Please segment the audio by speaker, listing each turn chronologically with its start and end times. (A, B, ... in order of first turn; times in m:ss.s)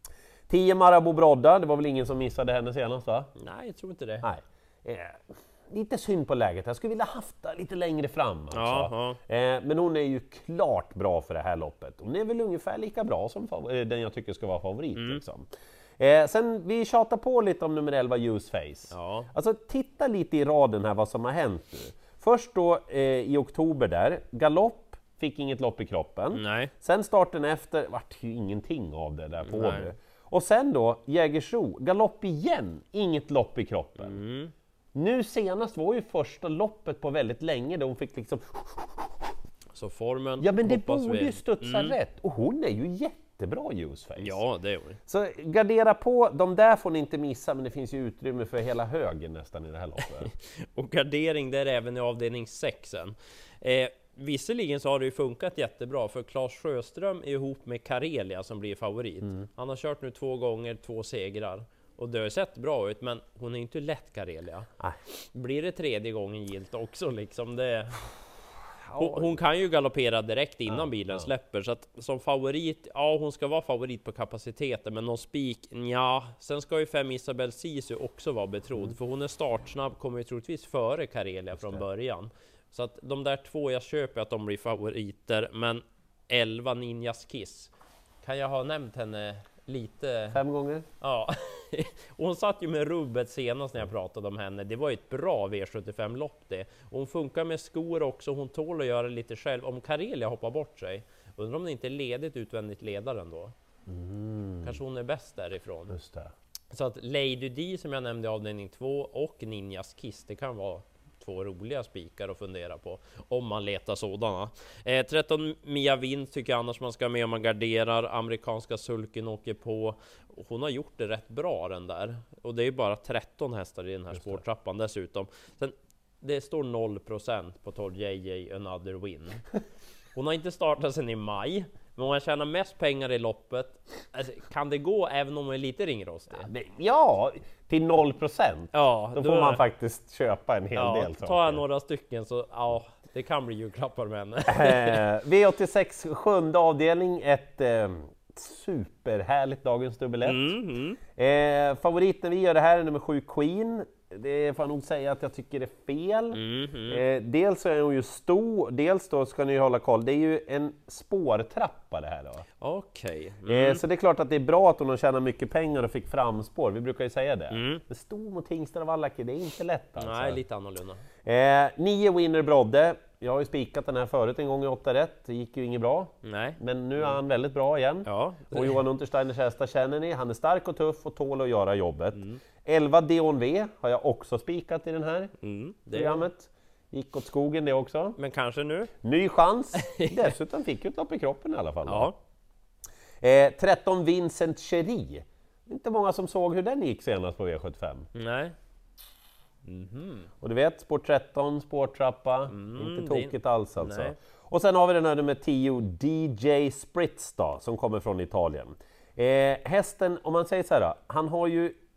0:00.5-0:03.3 A
0:03.4-0:04.3 B
0:04.2-0:34.2 A
0:08.5-0:09.2 B
0:15.0-0:15.2 B
0:18.9-0:19.3 B
0:26.3-0:26.7 B
0:29.4-0:29.9 B
0:34.0-0:34.5 B
0:34.9-0:39.1 A
0:39.8-0:42.0 B
0:40.4-0:44.4 A
0:44.2-0:45.0 B
0:45.1-0:50.3 A
0:50.2-1:04.7 B
1:05.3-1:08.1 B
1:08.8-1:09.4 A
1:09.0-1:27.7 B
1:10.7-1:11.3 A
1:21.5-1:21.8 A
1:28.2-1:30.4 B
1:30.3-1:30.9 A
1:31.0-1:43.5 B
1:43.9-1:44.8 A
1:44.6-1:46.0 B
1:45.9-1:46.3 A
1:46.7-2:09.4 B
2:10.2-2:16.5 B
2:16.3-2:21.6 A
2:18.7-2:19.6 B
2:20.8-2:25.0 B
2:24.5-2:30.5 A
2:30.2-2:31.0 B
2:31.1-2:42.5 A
2:36.3-2:37.0 B
2:42.6-2:43.8 B
2:43.5-2:50.4 A
2:47.5-2:47.8 B
2:50.0-2:51.0 B
2:51.2-3:05.3 A
2:56.2-2:57.2 B
2:58.0-2:58.8 B
3:02.2-3:02.4 B
3:05.4-3:06.2 B
3:05.9-3:08.2 A
3:08.2-3:08.9 B
3:09.0-3:12.1 A
3:09.8-3:10.3 B
3:11.9-3:12.2 B
3:13.2-3:18.1 A
3:18.1-3:18.6 B
3:19.6-3:20.3 B
3:20.4-3:31.8 A
3:22.5-3:24.2 B